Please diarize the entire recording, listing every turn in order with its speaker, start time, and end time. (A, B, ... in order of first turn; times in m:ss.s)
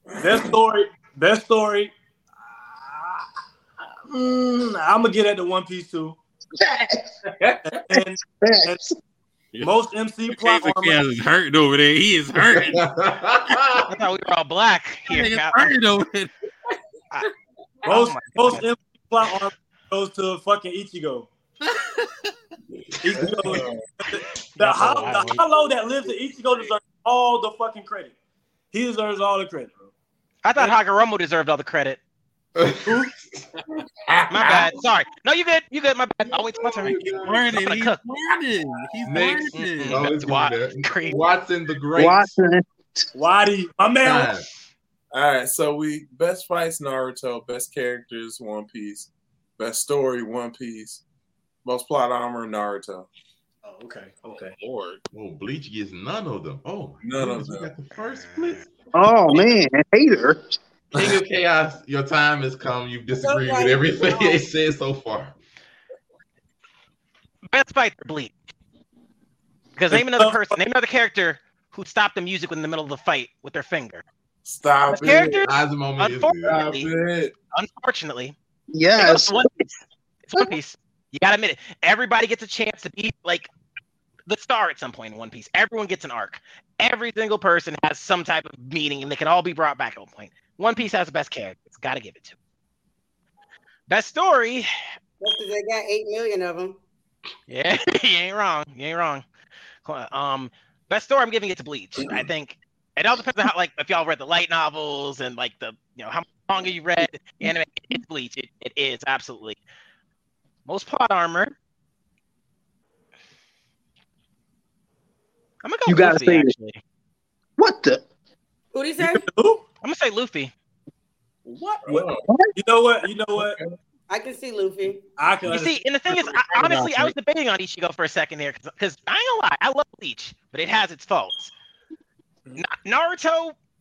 0:00.1-0:00.5 A
0:00.2-0:03.2 B
0:04.1-0:06.2 B
0:06.6-0:07.1 C
0:07.4-0:07.8 A
0:07.9-0:08.8 B
0:08.0-0:09.0 C
0:09.5-0:12.9 D
0:09.6-0:11.0 B
0:12.4-0:13.9 E
0:13.5-0:13.8 D
0:13.9-0:15.7 F
0:15.1-0:16.3 D
0:17.8-0:18.6 F
0:17.8-0:21.3 B
0:21.6-0:22.3 D
0:22.8-0:23.9 A
0:23.0-0:28.1 B
0:24.6-0:25.4 F
0:28.7-0:29.9 B
0:30.4-0:32.0 F
0:32.6-0:33.4 E
0:34.0-0:34.8 A
0:34.3-0:38.0 F
0:36.3-0:37.5 E
0:36.8-0:40.0 D
0:39.0-0:42.3 E
0:39.5-0:41.2 F
0:42.0-0:43.0 C
0:43.1-0:44.3 B
0:44.0-0:44.4 E
0:45.1-0:51.0 A
0:51.6-0:53.1 A
0:53.6-0:54.5 B
0:54.6-0:55.0 D
0:55.1-0:58.7 E
0:57.0-0:57.7 A
0:58.3-0:58.6 F
0:58.9-1:00.4 C
1:00.9-1:05.3 E
1:03.2-1:04.4 G
1:07.5-1:08.3 F
1:09.8-1:14.0 F
1:09.9-1:10.6 B
1:14.4-1:15.4 A
1:14.9-1:16.9 F
1:15.4-1:16.6 E
1:16.4-1:17.3 A
1:17.5-1:18.3 F
1:18.7-1:19.5 C
1:19.0-1:19.5 F
1:20.2-1:23.5 F
1:24.3-1:32.4 F
1:33.9-1:34.7 F
1:35.2-1:36.8 G
1:37.5-1:39.2 F
1:39.8-1:49.6 F
1:50.6-1:51.5 F
1:55.6-1:56.8 F
1:55.9-1:56.5 C
1:57.6-1:58.0 C
1:58.7-1:59.2 G
1:59.0-1:59.6 B
1:59.8-2:00.5 F
2:01.4-2:02.3 A
2:01.8-2:03.6 B
2:03.4-2:03.7 A
2:04.1-2:05.0 G
2:05.2-2:05.8 B
2:05.5-2:11.5 F
2:06.1-2:07.1 D
2:12.6-2:13.6 F